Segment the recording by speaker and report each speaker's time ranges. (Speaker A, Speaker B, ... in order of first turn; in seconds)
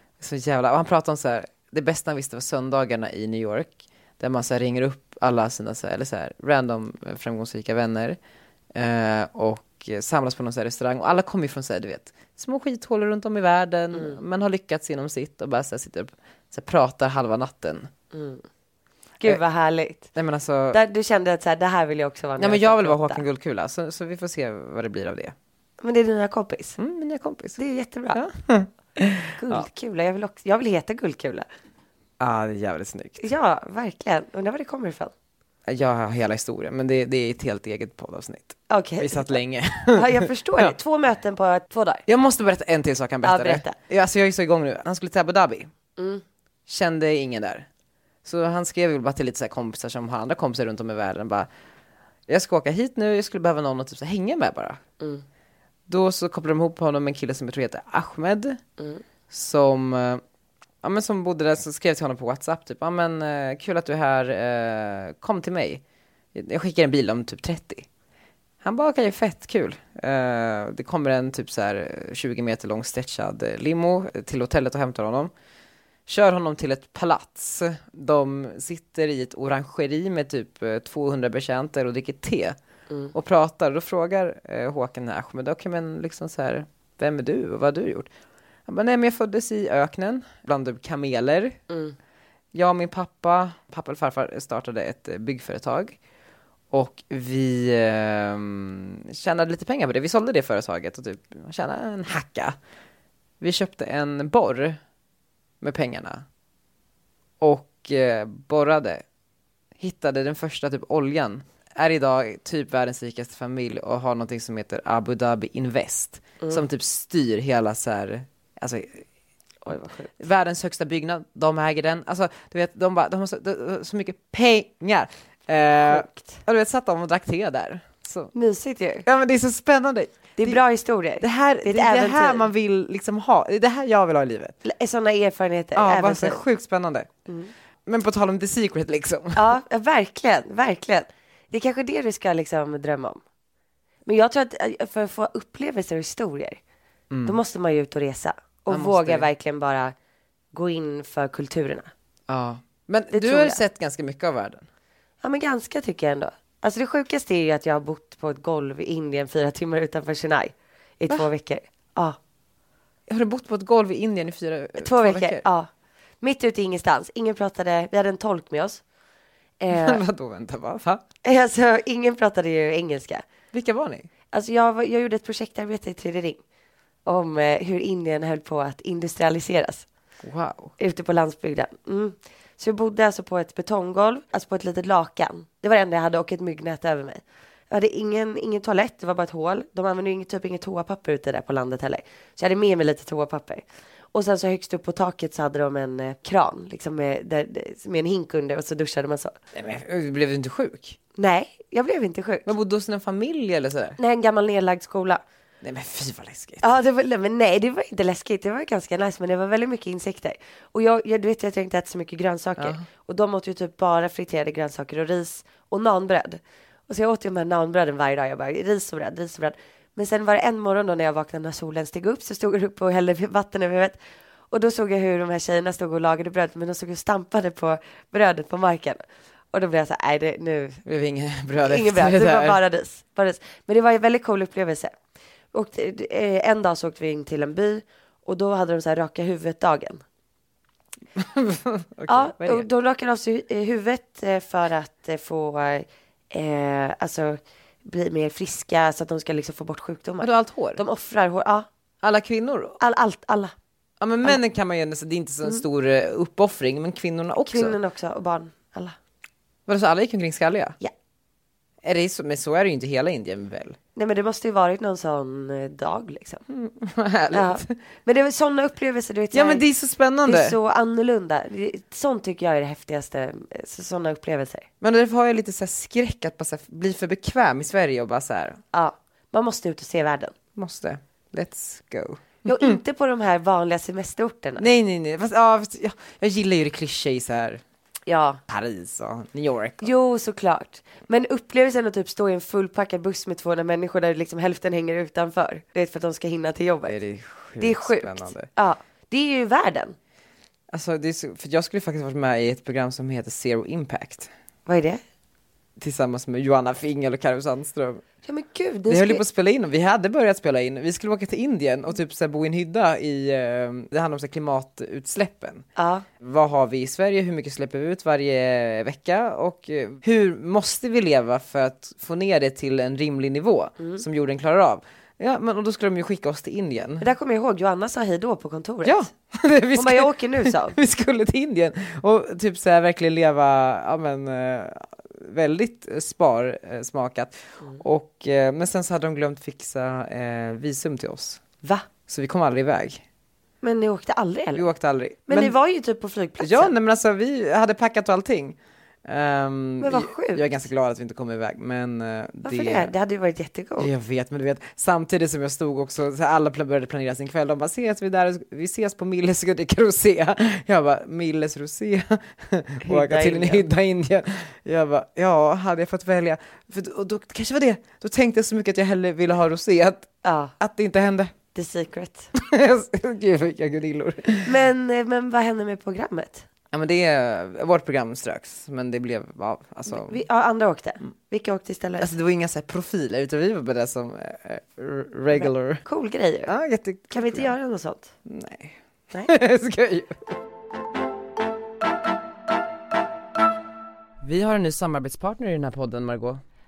Speaker A: 0.2-8.2, 8.8-17.9, 20.1-20.8, 22.4-25.4, 26.8-27.6, 28.1-29.7, 32.2-33.2, 35.7-40.7, 42.1-45.7, 46.7-47.7, 48.2-51.5, 52.3-54.8, 55.9-58.6, 59.3-60.2, 60.8-65.8, 66.3-67.9, 68.6-75.3, 76.1-82.6, 83.1-88.1, 88.7-91.6, 92.5-96.0, 96.7-102.6, 103.4-104.8, 105.6-106.2, 107.4-109.0, 109.8-119.0, 120.2-128.3, 129.1-130.6, 131.2-134.6, 135.8-137.1, 137.9-139.5, 147.1-147.4, 148.7-149.3, 152.3-154.7, 163.1-165.4, 169.7-171.0, 173.5-174.1, 180.2-180.8, 199.5-201.0, 202.5-204.0, 205.6-206.6, 212.6-212.8, 230.8-232.6, 241.2-242.7, 250.2-250.8, 252.0-252.8, 254.0-257.8, 259.7-260.8, 261.8-263.8, 266.5-267.7, 269.3-270.6, 274.8-278.6, 280.6-282.8, 284.6-287.6, 288.5-289.9, 296.9-298.5, 300.7-304.3, 305.8-308.0, 308.9-315.7, 316.2-327.1, 328.8-341.4, 342.1-343.0, 344.5-345.6, 346.4-352.9, 353.8-371.3, 372.4-374.5, 376.7-380.2, 382.0-385.8, 386.5-387.5, 388.3-390.4, 394.2-396.4
Speaker B: 13.9-14.2, 18.1-18.4, 19.2-20.1, 20.7-23.2, 25.8-26.8, 27.6-28.2, 29.4-31.5, 33.2-35.1, 38.7-39.4, 39.9-42.0, 43.2-43.8, 46.0-46.2, 91.7-92.0, 119.7-120.1, 125.9-126.4, 128.3-129.1, 130.4-132.4, 134.6-136.4, 137.3-137.5, 139.3-143.2, 144.1-146.6, 147.2-149.9, 150.5-151.9, 153.1-153.6, 155.2-162.2, 164.8-165.7, 166.2-168.8, 169.6-170.0, 171.2-173.2, 174.3-176.4, 177.1-179.9, 180.8-199.3, 201.2-202.5, 204.0-205.2, 206.6-224.0, 224.5-230.8, 231.6-234.9, 235.5-240.0, 242.1-251.7, 252.8-253.5, 257.5-259.0, 264.0-266.4, 267.3-269.6, 270.2-274.7, 278.7-280.4, 282.4-284.7, 288.1-288.4, 289.8-297.0, 297.6-300.0, 304.7-305.0, 308.2-309.2, 315.8-316.1, 327.0-329.1, 329.8-330.8, 343.6-344.6, 345.3-346.7, 349.8-350.5, 352.4-353.9, 362.9-363.6, 370.2-370.5, 371.6-372.3, 374.4-376.5, 379.9-382.1, 385.3-386.5, 387.1-388.1